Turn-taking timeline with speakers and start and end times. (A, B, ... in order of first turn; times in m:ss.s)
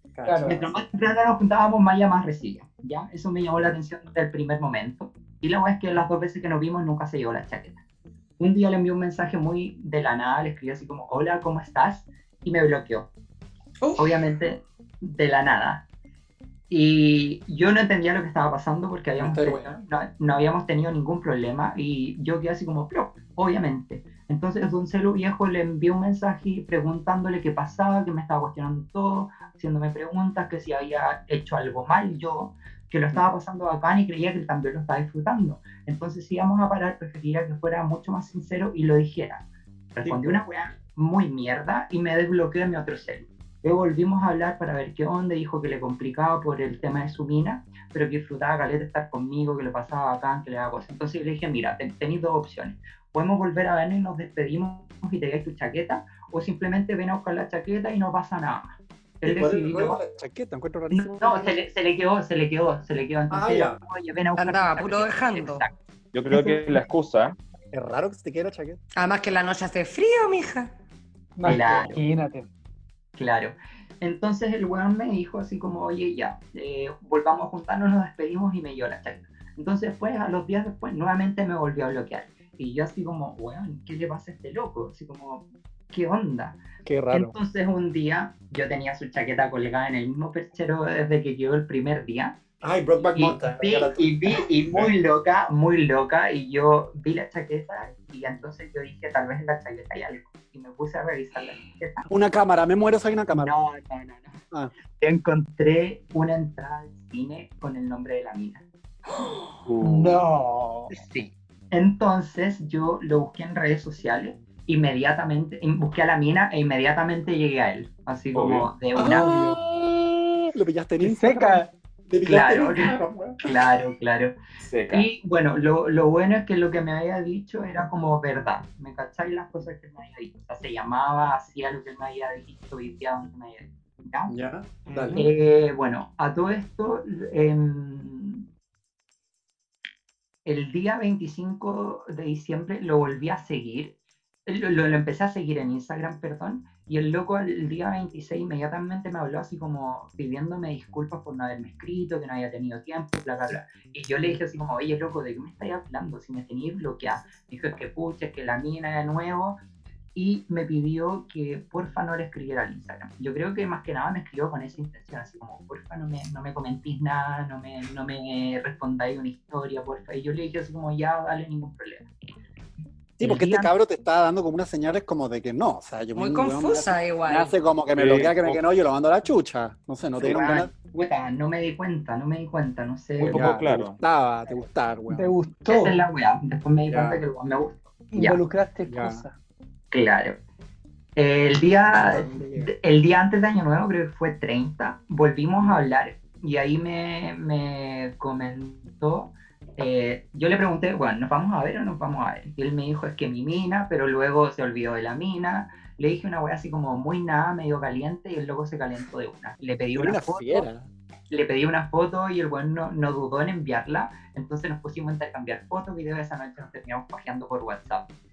0:00.1-0:00.8 A
0:00.2-0:00.7 B
0:00.4-0:07.8 C
0:08.4-0:13.1 C
0:14.0-0:15.8 C
0:16.7-1:00.0 C
0:19.2-0:19.8 A
0:40.0-0:40.4 A
0:59.2-1:01.6 A
1:00.9-1:05.7 C
1:03.3-1:03.8 A
1:04.4-1:05.6 D
1:06.1-1:07.4 E
1:07.7-1:08.8 A
1:09.0-1:10.7 D
1:11.4-1:12.5 B
1:11.4-1:12.0 C
1:11.5-1:11.9 A
1:13.2-1:32.4 C
1:26.8-1:27.3 A
1:32.6-1:34.9 A
1:33.0-1:42.1 C
1:42.1-1:43.5 A
1:43.3-1:44.4 C
1:44.9-1:48.6 C
1:49.6-1:50.2 E
1:49.8-1:50.9 B
1:50.9-1:59.4 C
1:58.3-1:58.7 E
1:58.9-2:03.4 A
2:01.0-2:01.7 B
2:02.2-2:04.4 C
2:04.6-2:05.1 E
2:04.9-2:14.3 C
2:14.3-2:15.3 A
2:15.0-2:15.2 E
2:15.1-2:18.5 C
2:20.4-2:23.9 C
2:24.4-2:39.6 C
2:40.1-2:52.1 C
2:53.2-3:00.7 A
2:53.2-2:53.7 C
2:56.1-2:57.5 D
2:58.0-2:58.6 E
3:00.2-3:03.5 C
3:03.2-3:04.0 E
3:03.2-3:05.4 A
3:05.1-3:06.0 B
3:05.6-3:08.4 C
3:06.9-3:07.2 A
3:08.1-3:09.3 B
3:08.9-3:09.2 A
3:09.9-3:10.4 C
3:11.2-3:30.7 C
3:11.9-3:12.7 A
3:30.0-3:30.9 A
3:31.3-3:38.1 C